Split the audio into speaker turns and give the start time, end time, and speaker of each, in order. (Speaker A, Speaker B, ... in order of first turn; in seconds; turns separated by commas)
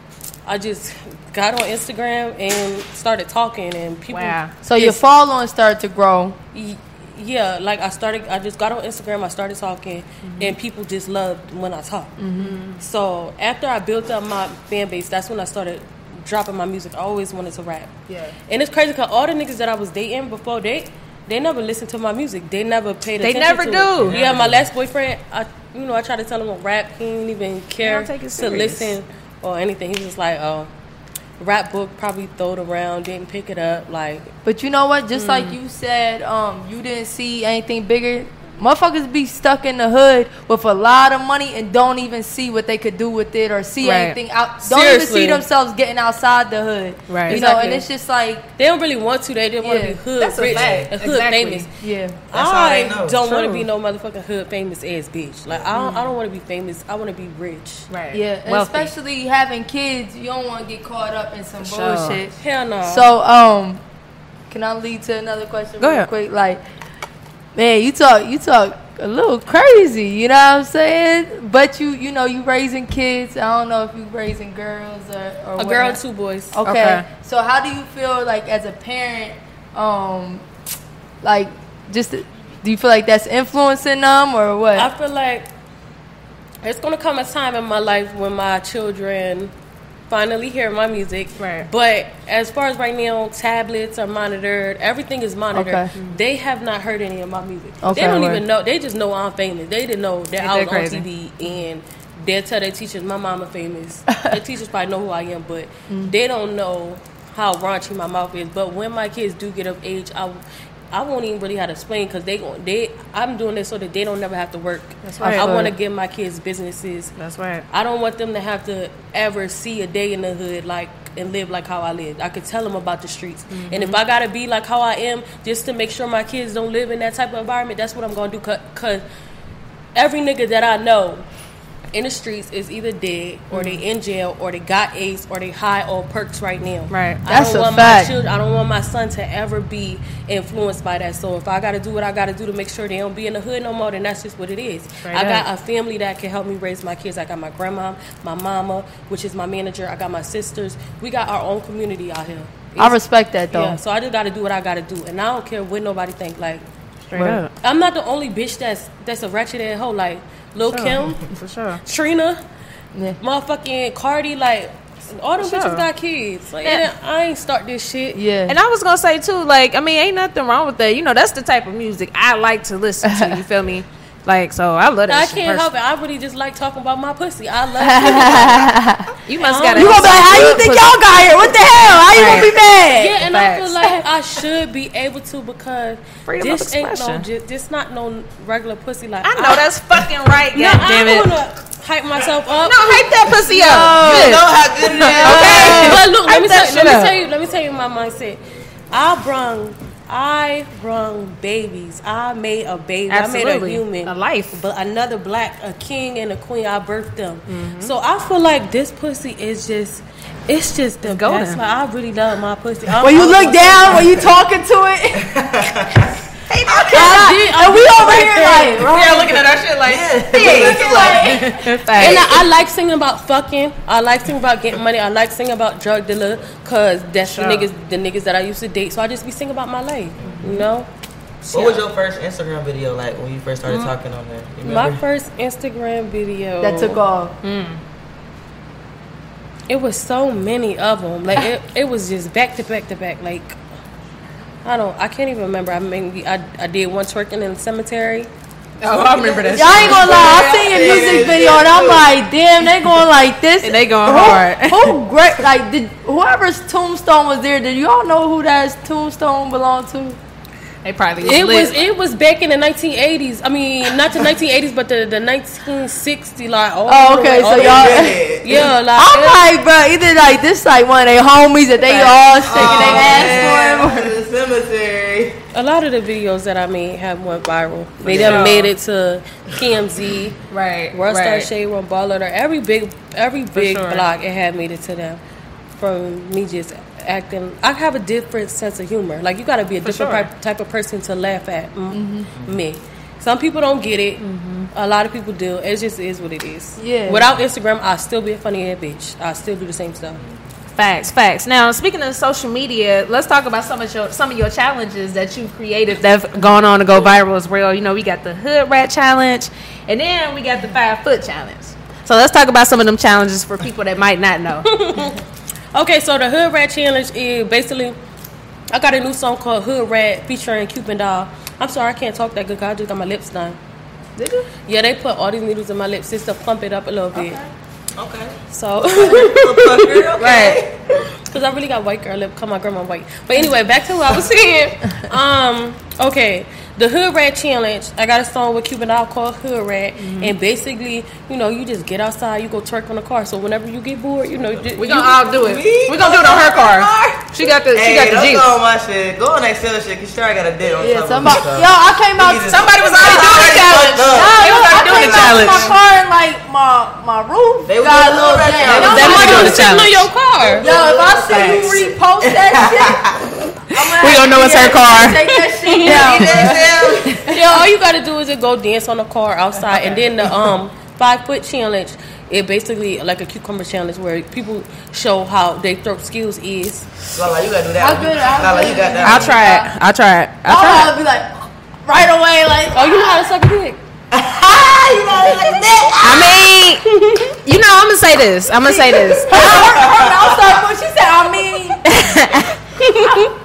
Speaker A: 0.5-5.0, Speaker B: 4.1-4.5, Speaker C: 4.6-6.4, Speaker A: 6.5-12.1, Speaker B: 10.2-10.5, Speaker C: 12.2-12.6, Speaker B: 12.4-12.8, Speaker A: 12.8-17.9, Speaker B: 18.1-18.3, Speaker A: 18.5-30.7, Speaker B: 23.2-24.2, Speaker D: 24.0-24.7, Speaker B: 27.8-28.9, Speaker A: 31.4-34.3, Speaker C: 34.4-48.5, Speaker B: 35.1-35.6, Speaker B: 43.8-44.1, Speaker A: 44.6-45.4, Speaker B: 47.1-47.4, Speaker A: 47.3-47.9, Speaker A: 48.6-51.7, Speaker C: 49.6-50.0, Speaker B: 50.2-51.7, Speaker D: 50.4-50.9, Speaker C: 51.8-52.2, Speaker A: 52.3-57.9, Speaker D: 52.3-53.2, Speaker B: 53.2-53.7, Speaker B: 55.7-56.1, Speaker B: 57.9-58.9, Speaker C: 58.1-63.8, Speaker B: 61.6-62.2, Speaker A: 62.4-63.1, Speaker C: 64.5-66.6, Speaker B: 65.8-66.1, Speaker C: 67.5-76.0, Speaker A: 75.6-76.6, Speaker C: 76.5-80.4, Speaker B: 76.7-77.0, Speaker C: 81.2-84.9, Speaker A: 84.8-85.5, Speaker A: 86.6-89.5, Speaker A: 90.1-110.4, Speaker B: 91.4-91.7, Speaker C: 95.5-95.9, Speaker C: 97.8-98.4, Speaker B: 100.4-101.0, Speaker C: 104.1-104.4, Speaker C: 105.9-106.1, Speaker A: 110.9-117.1, Speaker B: 115.0-115.5, Speaker C: 115.2-115.7, Speaker B: 117.2-117.7, Speaker A: 117.7-129.0, Speaker B: 123.5-124.0, Speaker A: 129.9-131.2, Speaker A: 131.9-152.9, Speaker B: 133.5-133.8, Speaker B: 136.9-137.2, Speaker C: 137.3-138.1, Speaker B: 145.0-145.4, Speaker C: 152.8-153.8, Speaker A: 153.5-156.6, Speaker B: 157.1-157.5, Speaker C: 157.1-157.4, Speaker A: 157.6-161.2, Speaker B: 160.7-161.8, Speaker A: 161.8-162.4, Speaker A: 163.2-168.2, Speaker B: 165.4-165.8, Speaker C: 168.1-168.6, Speaker B: 168.5-175.7, Speaker C: 173.0-173.4, Speaker A: 175.1-178.7, Speaker C: 177.8-179.1, Speaker B: 179.2-181.0, Speaker A: 179.4-180.6, Speaker C: 179.8-183.2, Speaker B: 182.1-182.5, Speaker A: 182.9-189.7, Speaker B: 183.2-184.0, Speaker B: 186.3-187.2, Speaker B: 189.2-191.3, Speaker A: 190.5-193.9, Speaker B: 192.6-197.1, Speaker C: 193.5-196.0, Speaker D: 193.9-195.9, Speaker A: 195.1-214.2, Speaker B: 203.1-204.5, Speaker B: 207.5-207.9, Speaker B: 211.0-211.6, Speaker C: 213.0-215.5, Speaker D: 215.1-216.1, Speaker B: 216.5-217.2, Speaker D: 216.6-217.1, Speaker A: 216.9-219.0, Speaker C: 216.9-219.5, Speaker B: 218.8-222.4, Speaker D: 219.7-221.4, Speaker C: 220.3-222.3, Speaker A: 221.9-230.9, Speaker B: 227.2-227.7, Speaker D: 230.2-230.5, Speaker D: 231.5-235.0, Speaker A: 231.5-231.8, Speaker A: 233.7-233.9, Speaker A: 234.6-237.0, Speaker C: 236.6-237.3, Speaker B: 237.4-237.8, Speaker A: 239.7-243.6, Speaker A: 244.6-248.3, Speaker B: 248.8-250.2, Speaker D: 249.1-252.1, Speaker C: 249.5-260.2, Speaker B: 253.6-255.0, Speaker B: 260.8-261.8, Speaker A: 261.2-269.5, Speaker C: 266.9-268.3, Speaker D: 267.5-268.7, Speaker C: 268.9-274.1, Speaker D: 272.4-275.4, Speaker A: 272.7-273.1, Speaker A: 275.5-280.4, Speaker D: 278.0-278.5, Speaker B: 278.1-278.7, Speaker B: 280.5-281.5, Speaker A: 280.9-285.2, Speaker B: 283.5-284.0, Speaker A: 285.8-300.2, Speaker B: 289.8-290.3, Speaker C: 291.9-292.3, Speaker B: 294.2-294.7, Speaker C: 296.8-297.3, Speaker B: 300.7-314.7, Speaker A: 314.6-315.2, Speaker A: 315.7-318.0, Speaker A: 318.7-323.6, Speaker B: 324.2-324.4, Speaker A: 324.7-327.4, Speaker D: 327.9-331.1, Speaker A: 328.5-330.1, Speaker B: 330.2-330.6, Speaker A: 331.2-345.2, Speaker B: 340.0-340.3, Speaker B: 344.8-348.5, Speaker D: 345.1-355.7, Speaker C: 350.8-352.6, Speaker B: 352.4-355.8, Speaker C: 354.1-359.7, Speaker D: 357.7-359.6, Speaker B: 358.7-360.0, Speaker A: 358.8-360.7, Speaker D: 360.4-363.3, Speaker C: 360.6-363.1, Speaker B: 361.2-361.7, Speaker C: 363.7-367.4, Speaker B: 363.8-366.5, Speaker A: 365.6-366.0, Speaker D: 365.8-367.3, Speaker A: 367.3-376.9, Speaker D: 377.1-379.4, Speaker C: 377.8-379.7, Speaker B: 379.0-380.9, Speaker C: 380.4-383.2, Speaker A: 382.7-383.8, Speaker D: 384.1-386.5, Speaker B: 386.0-386.9, Speaker A: 386.8-387.4, Speaker B: 387.4-389.5, Speaker C: 388.6-391.9, Speaker D: 389.3-390.4, Speaker B: 391.9-392.5, Speaker A: 392.8-393.3